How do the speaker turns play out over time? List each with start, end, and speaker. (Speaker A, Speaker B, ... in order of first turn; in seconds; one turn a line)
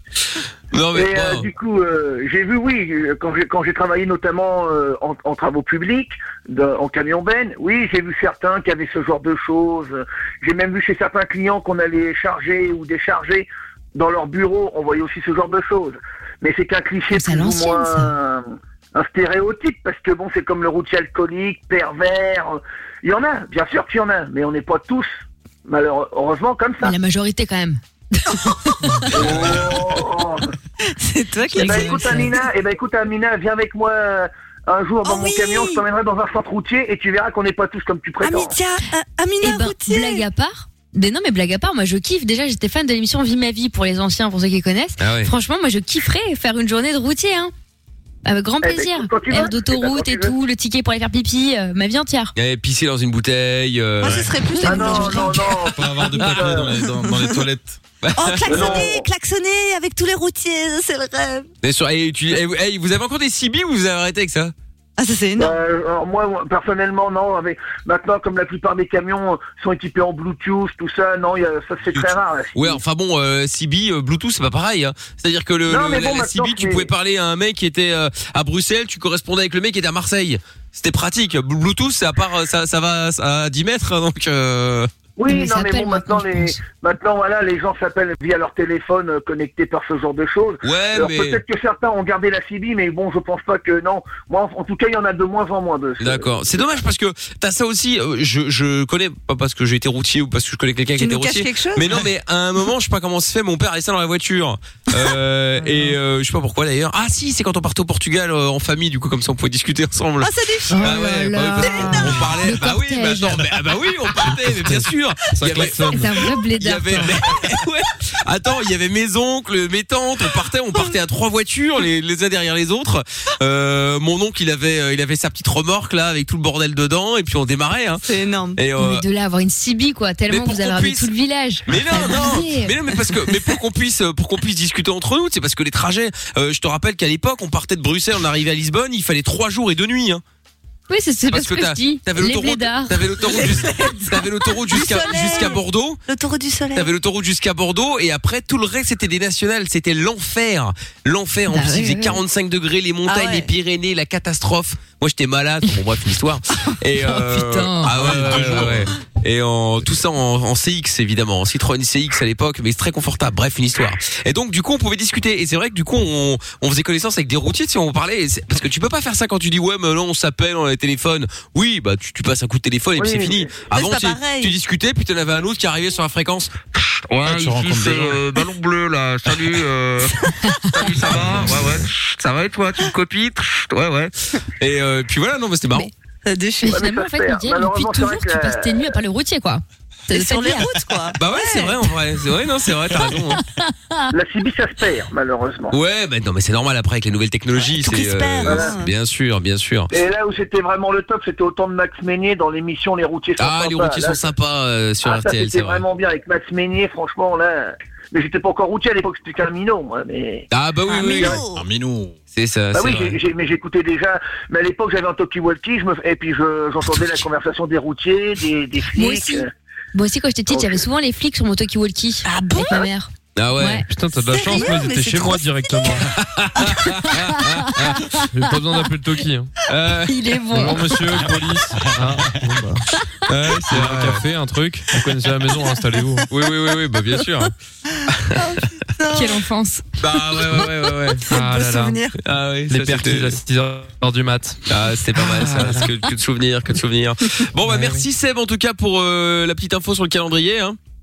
Speaker A: 0.7-1.5
Speaker B: 0.9-26.9
Speaker C: 17.1-18.1
Speaker C: 26.8-29.5
Speaker B: 29.1-30.5
Speaker D: 30.9-32.3
Speaker C: 31.5-32.3
Speaker B: 31.6-38.6
Speaker D: 35.0-35.8
Speaker D: 38.2-40.2
Speaker C: 39.4-47.5
Speaker A: 45.0-45.3
Speaker C: 48.2-52.3
Speaker B: 48.6-50.3
Speaker A: 52.4-54.3
Speaker D: 54.0-55.4
Speaker C: 54.6-55.4
Speaker B: 54.6-56.7
Speaker E: 55.7-57.8
Speaker D: 56.9-57.4
Speaker A: 58.0-58.8
Speaker D: 58.1-61.5
Speaker B: 58.5-59.1
Speaker A: 61.6-64.5
Speaker D: 65.0-65.6
Speaker B: 65.4-72.8
Speaker A: 71.9-84.9
Speaker B: 75.7-76.9
Speaker B: 85.2-96.6
Speaker C: 85.3-86.6
Speaker A: 90.6-91.4
Speaker A: 96.0-129.1
Speaker D: 101.0-102.0
Speaker D: 105.6-105.9
Speaker D: 110.2-111.0
Speaker C: 110.7-113.5
Speaker D: 111.6-112.3
Speaker F: 115.4-116.2
Speaker C: 115.6-117.3
Speaker D: 128.0-128.6
Speaker C: 128.8-132.8
Speaker A: 130.3-131.1
Speaker A: 131.7-140.2
Speaker C: 140.9-143.0
Speaker A: 141.3-146.0
Speaker D: 143.2-146.9
Speaker A: 146.8-180.2
Speaker C: 151.5-152.2
Speaker D: 153.1-153.5
Speaker C: 157.0-158.6
Speaker E: 157.9-158.9
Speaker B: 173.0-173.5
Speaker D: 173.7-174.5
Speaker E: 177.2-178.2
Speaker A: 180.7-185.9
Speaker E: 181.1-181.5
Speaker D: 185.7-186.9
Speaker C: 186.6-190.8
Speaker B: 186.7-189.0
Speaker D: 190.1-191.8
Speaker A: 191.2-193.4
Speaker C: 192.9-194.1
Speaker B: 194.1-195.8
Speaker A: 195.7-199.9
Speaker D: 197.6-198.9
Speaker B: 198.5-198.7
Speaker B: 199.9-204.2
Speaker A: 203.4-205.8
Speaker B: 205.0-210.5
Speaker A: 210.5-211.4
Speaker D: 210.9-211.6
Speaker E: 211.5-212.2
Speaker A: 212.3-213.2
Speaker B: 212.7-219.5
Speaker C: 218.9-223.9
Speaker B: 220.5-220.8
Speaker D: 222.2-222.9
Speaker A: 223.4-223.8
Speaker F: 223.9-226.1
Speaker D: 224.3-225.9
Speaker A: 226.1-228.0
Speaker F: 228.3-229.5
Speaker A: 229.7-230.2
Speaker C: 230.0-231.1
Speaker F: 230.5-232.8
Speaker E: 231.2-232.4
Speaker A: 233.3-234.2
Speaker F: 233.4-236.3
Speaker A: 236.3-237.5
Speaker D: 238.4-239.4
Speaker C: 239.1-239.8
Speaker A: 240.0-241.2
Speaker F: 241.3-242.0
Speaker D: 241.3-242.1
Speaker A: 242.2-243.4
Speaker F: 242.7-244.6
Speaker A: 244.7-250.8
Speaker F: 245.2-245.9
Speaker F: 247.7-248.0